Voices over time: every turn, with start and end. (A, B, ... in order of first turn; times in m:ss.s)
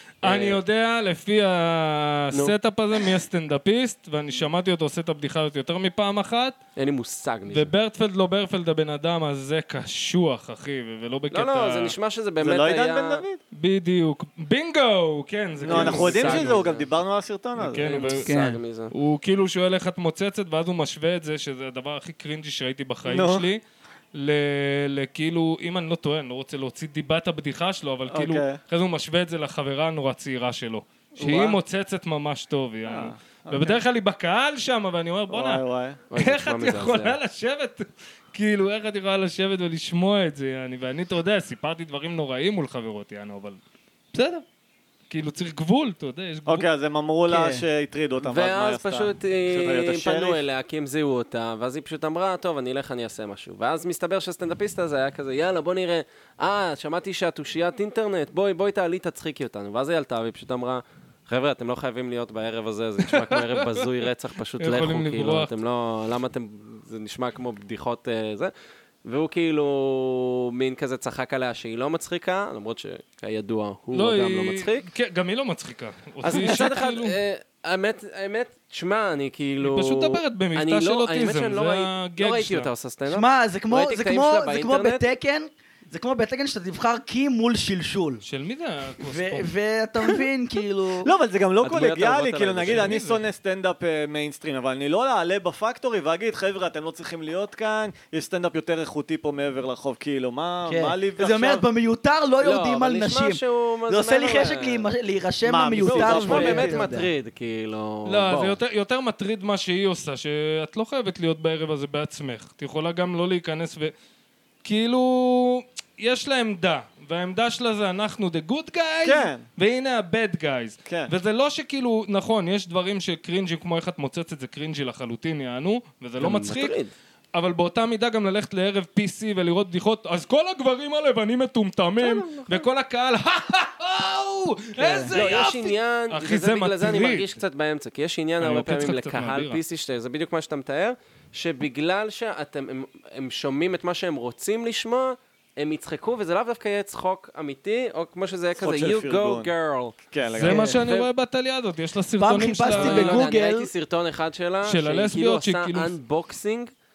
0:00.2-0:00.6 A
0:00.2-0:06.6 B
0:02.3-0:03.1 A
0:06.8-0:07.7 A
0:07.5-0:11.9 B
0:11.3-0:13.2 A
0:12.4-0:13.4 C
0:13.5-0:16.6 B
0:15.6-0:18.1 C
0:15.6-0:16.9 A
0:17.6-0:18.4 B
0:17.8-0:18.9 A
0:18.2-0:18.6 D
0:18.9-0:23.6 B
0:23.1-0:23.5 C
0:24.1-0:35.6 B
0:28.1-0:28.6 C
0:31.2-0:31.6 C
0:32.9-0:33.8 C
0:35.3-0:36.0 C
0:36.1-0:37.2 A
0:36.1-0:43.6 B
0:44.1-0:44.4 B
0:45.1-0:46.7 B
0:46.5-0:50.4 C
0:47.3-0:47.6 D
0:48.2-1:08.5 A
1:03.1-1:03.9 B
1:04.6-1:05.5 B
1:09.0-1:14.9 A
1:13.9-1:17.2 B
1:16.2-1:25.1 A
1:19.6-1:22.7 B
1:23.1-1:28.2 D
1:28.2-1:29.5 B
1:29.0-1:31.1 D
1:31.0-1:41.6 C
1:31.6-1:33.0 A
1:32.6-1:33.2 B
1:40.7-1:47.1 D
1:42.4-1:44.9 A
1:45.4-1:46.8 C
1:45.8-1:48.6 A
1:48.1-1:53.9 B
1:54.6-2:06.8 B
1:59.0-1:59.4 C
2:00.9-2:01.1 C
2:06.2-2:06.9 A
2:07.3-2:17.3 B
2:12.0-2:12.7 A
2:14.8-2:15.1 D
2:15.1-2:30.0 A
2:18.4-2:19.6 B
2:28.6-2:29.5 C
2:30.1-2:30.6 C
2:30.3-2:33.3 B
2:30.4-2:30.8 D
2:30.8-2:31.1 A
2:32.2-2:33.7 D
2:32.7-2:36.7 A
2:34.6-2:35.9 B